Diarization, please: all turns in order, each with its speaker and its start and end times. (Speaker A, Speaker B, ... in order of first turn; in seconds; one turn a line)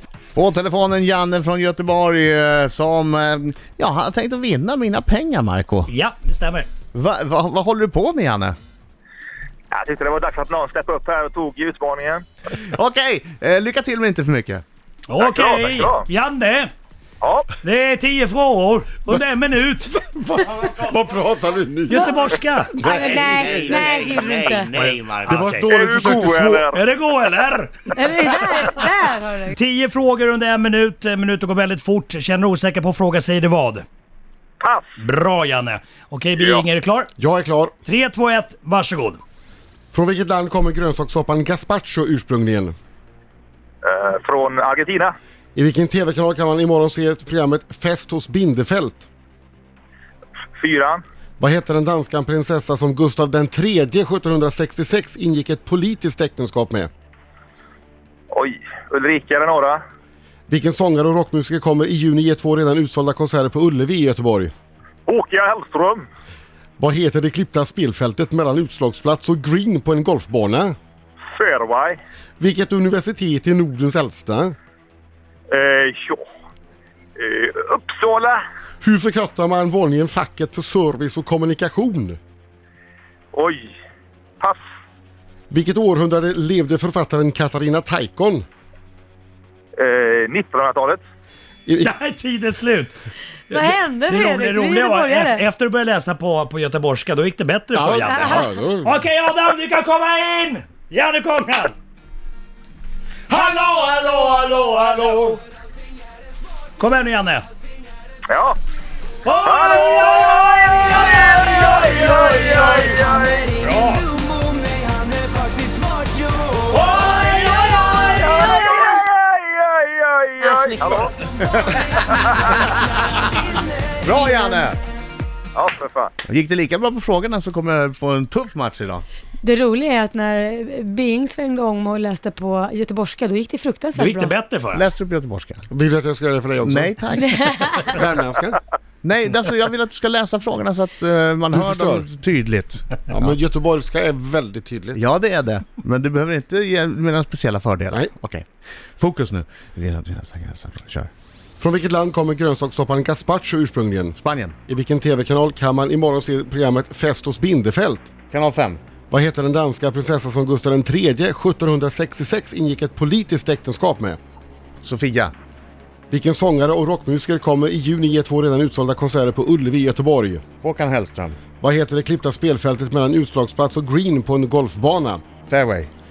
Speaker A: 0.3-5.9
Speaker B: 5.9-6.7
Speaker A: 6.9-8.6
Speaker C: 9.7-12.2
Speaker A: 12.5-14.7
Speaker B: 15.1-16.7
Speaker C: 15.2-16.1
Speaker C: 17.2-17.5
Speaker B: 17.6-20.0
Speaker D: 20.0-22.4
Speaker B: 21.9-22.8
Speaker A: 22.8-25.5
Speaker E: 22.9-24.8
Speaker D: 23.4-23.8
Speaker B: 24.8-25.7
Speaker D: 25.3-26.7
Speaker C: 25.7-26.8
Speaker B: 26.7-28.3
Speaker E: 27.9-29.6
Speaker B: 29.5-33.9
Speaker C: 34.6-34.9
Speaker B: 35.0-37.1
Speaker C: 36.4-36.7
Speaker D: 37.2-37.8
Speaker B: 37.9-39.2
Speaker D: 39.9-42.8
Speaker C: 43.8-45.1
Speaker D: 45.5-49.0
Speaker C: 50.6-51.0
Speaker D: 51.4-56.9
Speaker C: 58.3-59.8
Speaker D: 60.5-64.5
Speaker C: 65.1-66.1
Speaker D: 66.8-70.8
Speaker C: 71.3-72.0
Speaker D: 72.4-74.6
Speaker C: 75.5-76.2
Speaker C: 77.2-78.4
Speaker D: 78.8-82.2
Speaker C: 83.3-83.8
Speaker D: 85.5-88.5
Speaker C: 89.8-91.0
Speaker D: 91.7-92.0
Speaker B: 91.8-93.0
Speaker B: 93.5-101.7
Speaker E: 93.5-95.4
Speaker D: 97.7-99.0
Speaker D: 103.3-105.4
Speaker B: 106.8-107.5
Speaker C: 108.3-108.6
Speaker B: 109.2-114.1
Speaker C: 109.4-109.7
Speaker C: 112.1-113.3
Speaker B: 116.7-118.5
Speaker C: 118.0-121.1
Speaker E: 120.4-121.1
Speaker A: 121.4-123.0
Speaker A: 124.0-124.8
Speaker C: 125.5-126.1
Speaker A: 126.2-129.1
Speaker E: 129.4-134.3
Speaker B: 133.9-134.9
Speaker A: 134.7-135.6
Speaker D: 135.7-137.0
Speaker A: 136.6-137.8
Speaker D: 137.8-138.6
Speaker A: 139.0-143.3
Speaker D: 141.5-142.0
Speaker D: 143.1-145.0
Speaker A: 144.9-148.5
Speaker A: 149.0-151.1
Speaker D: 151.6-154.2
Speaker A: 154.2-154.6
Speaker D: 154.7-158.1
Speaker A: 158.3-158.8
Speaker D: 159.1-164.2
Speaker A: 164.8-165.3
Speaker D: 166.1-170.4
Speaker A: 170.6-171.4
Speaker D: 171.6-175.2
Speaker A: 175.5-175.9